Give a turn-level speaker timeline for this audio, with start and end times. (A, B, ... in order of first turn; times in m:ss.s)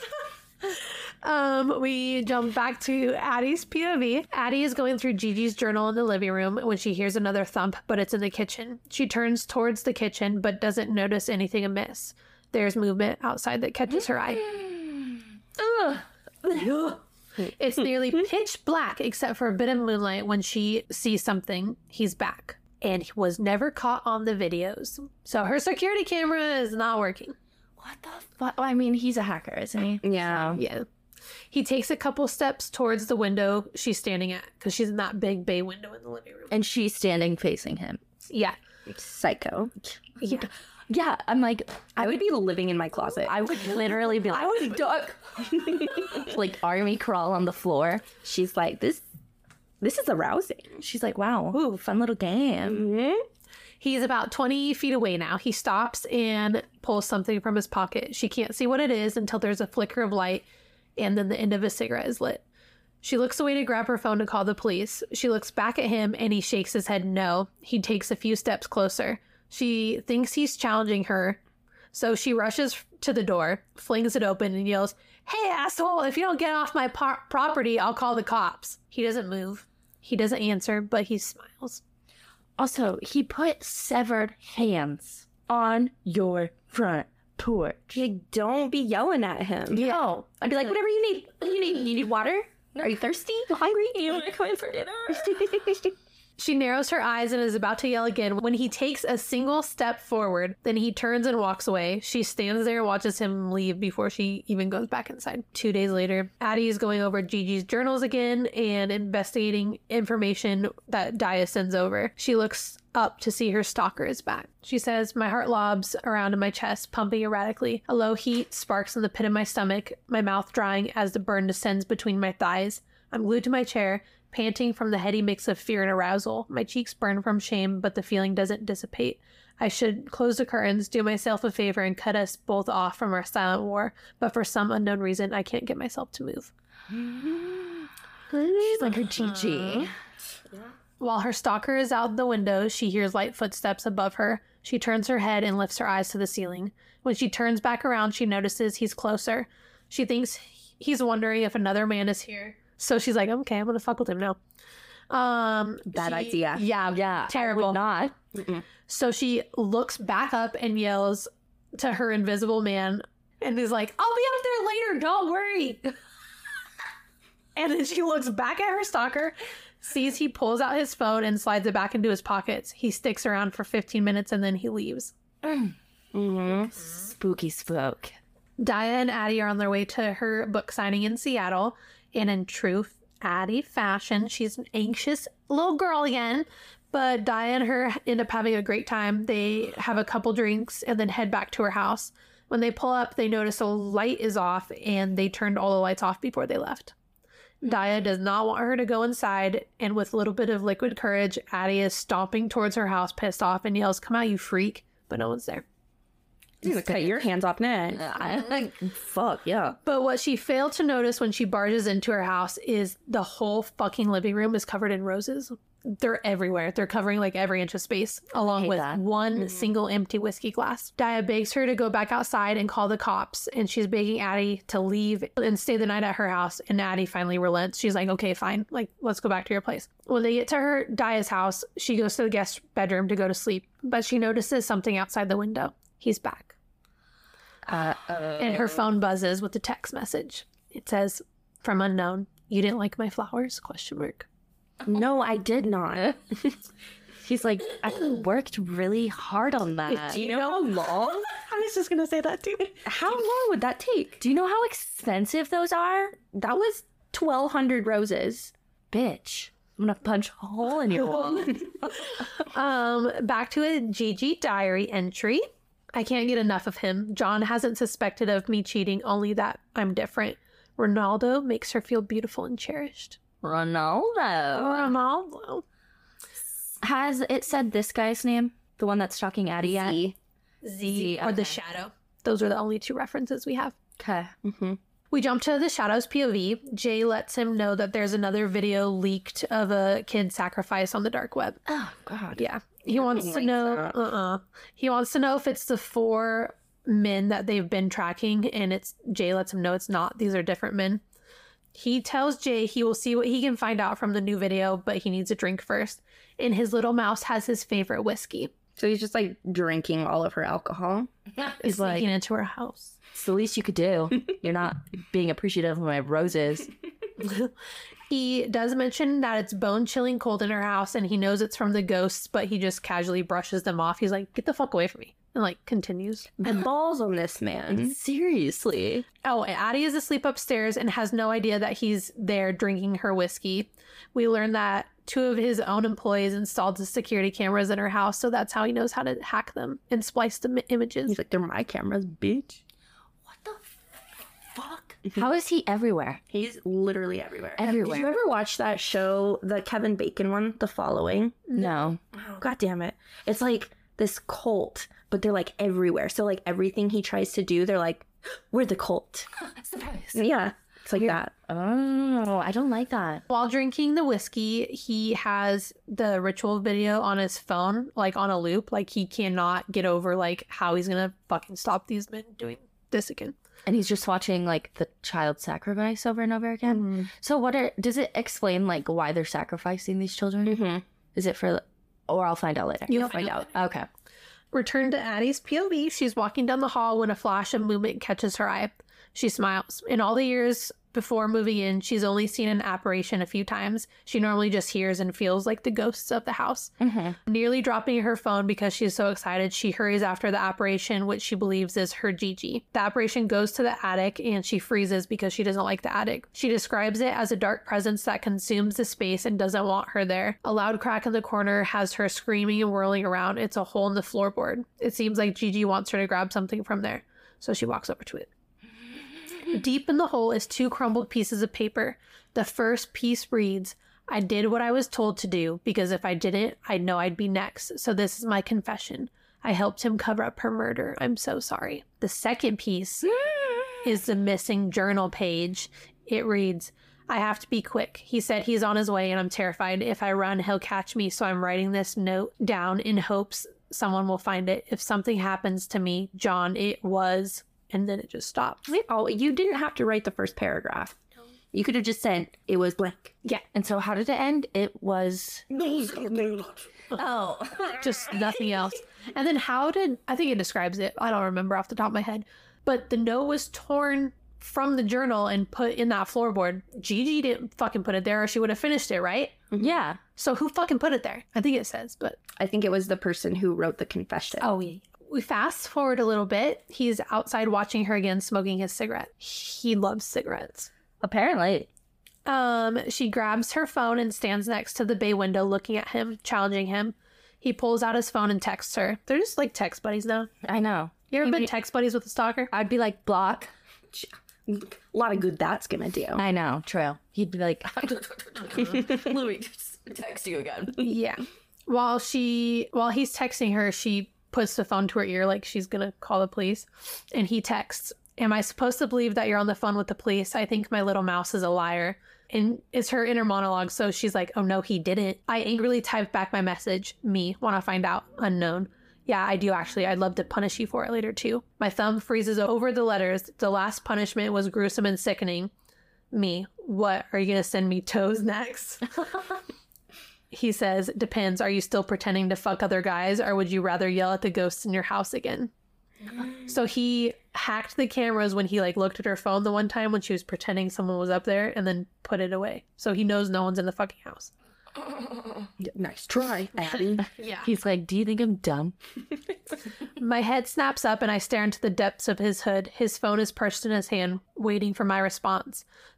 0:00.7-0:14.4 A
0:14.3-0:16.7 B
0:16.5-0:27.3 A
0:27.8-0:30.6 B
0:30.0-0:30.6 C
0:30.6-0:30.8 A
0:31.5-0:36.5 A
0:36.5-0:38.0 B
0:38.3-0:38.6 A
0:38.9-0:40.0 C
0:40.2-0:40.5 A
0:40.9-0:42.2 B
0:42.0-0:43.4 C
0:43.2-0:48.1 B
0:43.5-0:44.8 A
0:45.8-0:46.1 C
0:48.2-0:49.0 C
0:49.8-0:50.8 C
0:50.8-0:52.9 B
0:52.6-0:53.2 C
0:53.8-1:02.4 A
1:03.0-1:11.4 A
1:11.9-1:21.8 A
1:22.6-1:28.0 B
1:27.9-1:29.8 C
1:29.7-1:32.9 B
1:29.7-1:30.0 A
1:31.7-1:34.4 C
1:34.1-1:35.7 B
1:35.1-1:35.9 C
1:36.4-2:16.5 A
2:16.9-2:19.9 B
2:19.2-2:19.9 A
2:21.0-2:34.4 A
2:35.1-2:37.8 A
2:35.9-2:36.6 C
2:36.9-2:38.2 B
2:38.3-2:38.6 C
2:38.9-2:45.9 A
2:47.6-2:55.1 A
2:55.4-2:55.8 B
2:56.1-2:56.7 C
2:56.8-2:58.1 B
2:58.6-3:16.9 A
3:17.6-3:25.6 A
3:26.6-3:28.1 C
3:26.6-3:27.1 B
3:27.9-3:29.8 B
3:29.8-3:56.6 A
3:38.6-3:39.0 B
3:57.6-3:58.8 B
3:58.4-4:04.3 A
4:04.8-4:06.6 C
4:07.2-4:10.2 B
4:09.9-4:12.9 A
4:10.1-4:11.3 C
4:12.8-4:14.2 C
4:14.2-4:16.2 B
4:16.3-4:18.5 C
4:18.9-4:22.1 B
4:21.1-4:21.6 A
4:22.4-4:33.2 A
4:33.4-4:34.9 B
4:34.5-4:35.6 A
4:36.8-4:40.0 B
4:39.6-4:40.1 C
4:40.6-4:43.8 A
4:40.8-4:41.6 B
4:44.0-4:44.3 B
4:44.4-4:44.8 C
4:45.1-4:51.6 A
4:51.7-4:52.4 B
4:52.4-5:01.0 A
4:53.1-4:53.4 B
4:53.2-4:53.9 C
5:01.7-5:08.5 A
5:08.8-5:11.1 C
5:11.4-5:12.1 B
5:11.6-5:13.0 A
5:13.1-5:16.7 B
5:17.2-5:17.5 A
5:18.1-5:26.6 A
5:26.4-5:28.0 C
5:27.6-5:29.0 B
5:29.2-5:41.1 A
5:41.1-5:42.6 C
5:43.2-5:43.7 B
5:44.4-5:46.2 B
5:46.3-5:51.5 C
5:47.6-5:48.1 B
5:51.5-5:52.0 B
5:52.2-5:59.3 C
5:59.4-6:00.2 B
6:00.1-6:01.3 C
6:01.0-6:03.2 B
6:03.3-6:13.3 A
6:13.6-6:20.6 B
6:16.7-6:17.0 C
6:20.4-6:20.8 C
6:21.1-6:23.9 B
6:22.9-6:23.4 A
6:24.5-6:36.7 A
6:36.8-6:37.2 B
6:37.2-6:58.3 A
6:59.5-7:13.2 A
7:13.2-7:13.8 B
7:13.8-7:28.7 A
7:28.7-7:31.0 C
7:31.5-7:33.1 C
7:33.5-7:35.4 B
7:35.5-7:36.6 C
7:36.9-7:38.2 B
7:37.8-7:49.4 A
7:49.6-7:50.0 B
7:50.2-7:52.2 A
7:52.4-7:54.5 C
7:54.4-8:00.7 A
8:01.0-8:01.7 B
8:02.2-8:10.3 A
8:10.4-8:11.5 B
8:11.1-8:12.5 A
8:12.5-8:13.5 B
8:13.9-8:16.2 C
8:16.2-8:20.8 B
8:20.8-8:45.5 A
8:46.1-8:48.9 A
8:50.3-8:55.5 A
8:56.4-9:04.3 A
9:05.6-9:07.1 C
9:07.0-9:08.7 B
9:07.2-9:07.4 A
9:10.0-9:15.6 A